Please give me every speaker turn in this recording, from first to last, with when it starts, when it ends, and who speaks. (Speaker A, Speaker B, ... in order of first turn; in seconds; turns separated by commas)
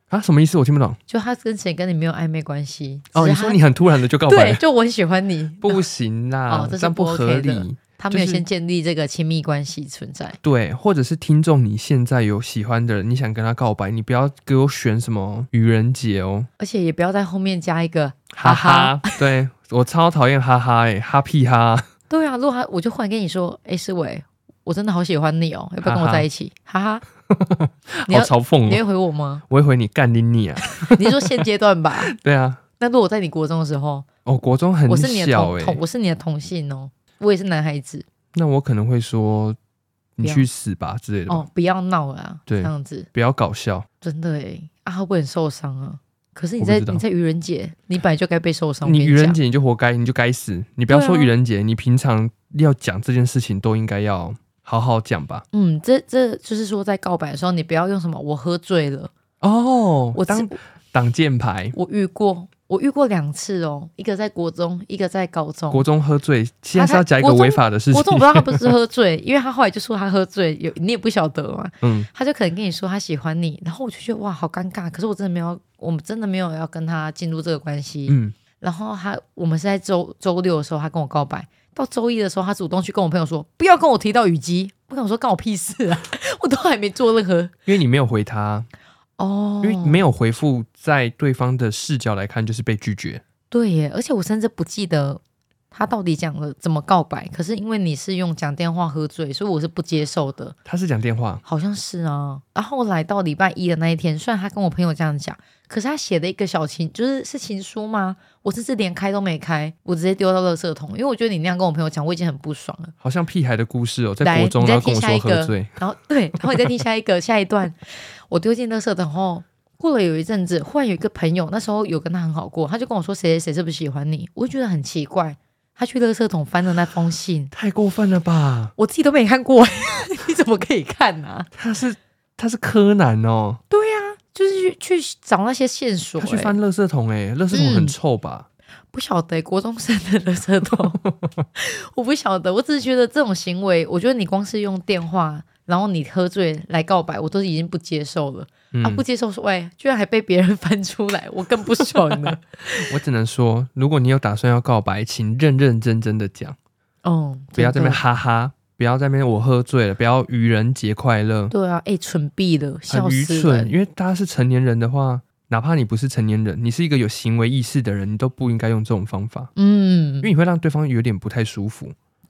Speaker A: 0.1-1.0, Speaker B: 1.1-3.6, Speaker A: 3.1-4.6, Speaker B: 4.3-5.8, Speaker A: 5.6-8.4, Speaker B: 6.5-10.4, Speaker A: 10.4-16.5, Speaker B: 16.6-19.2, Speaker A: 18.3-21.9, Speaker B: 22.1-27.0, Speaker A: 25.8-26.3, Speaker A: 27.3-28.8, Speaker B: 28.1-29.4, Speaker A: 29.5-31.5, Speaker B: 30.7-32.1, Speaker A: 32.0-32.6, Speaker B: 32.8-34.1, Speaker A: 34.3-35.8, Speaker B: 34.9-38.0, Speaker A: 38.3-39.6, Speaker A: 40.2-41.5, Speaker B: 40.2-40.5, Speaker B: 41.3-43.1, Speaker A: 42.5-43.9, Speaker B: 44.0-49.4, Speaker A: 46.6-47.0, Speaker A: 48.9-55.5, Speaker B: 50.9-51.3, Speaker B: 55.5-59.1, Speaker A: 59.4-61.8, Speaker B: 60.2-60.6, Speaker B: 61.7-65.9, Speaker A: 65.7-68.7, Speaker B: 66.8-87.5, Speaker A: 71.8-72.1, Speaker A: 78.1-78.3, Speaker A: 87.7-88.7, Speaker B: 89.2-90.0, Speaker A: 89.6-93.2, Speaker B: 93.5-95.2, Speaker B: 95.7-100.6, Speaker A: 100.7-101.4, Speaker B: 101.5-112.9, Speaker A: 113.0-115.7, Speaker B: 114.2-127.5, Speaker A: 127.5-128.8, Speaker B: 128.8-131.5, Speaker A: 131.5-133.6, Speaker B: 133.7-136.6, Speaker A: 136.2-138.5, Speaker B: 137.5-137.9, Speaker B: 138.9-141.0, Speaker A: 141.0-141.4, Speaker B: 141.6-152.9, Speaker A: 148.7-149.1, Speaker A: 151.8-156.6, Speaker B: 157.0-158.0, Speaker A: 157.6-161.5, Speaker B: 161.5-163.8, Speaker A: 162.9-169.5, Speaker B: 169.6-170.3, Speaker A: 170.2-171.9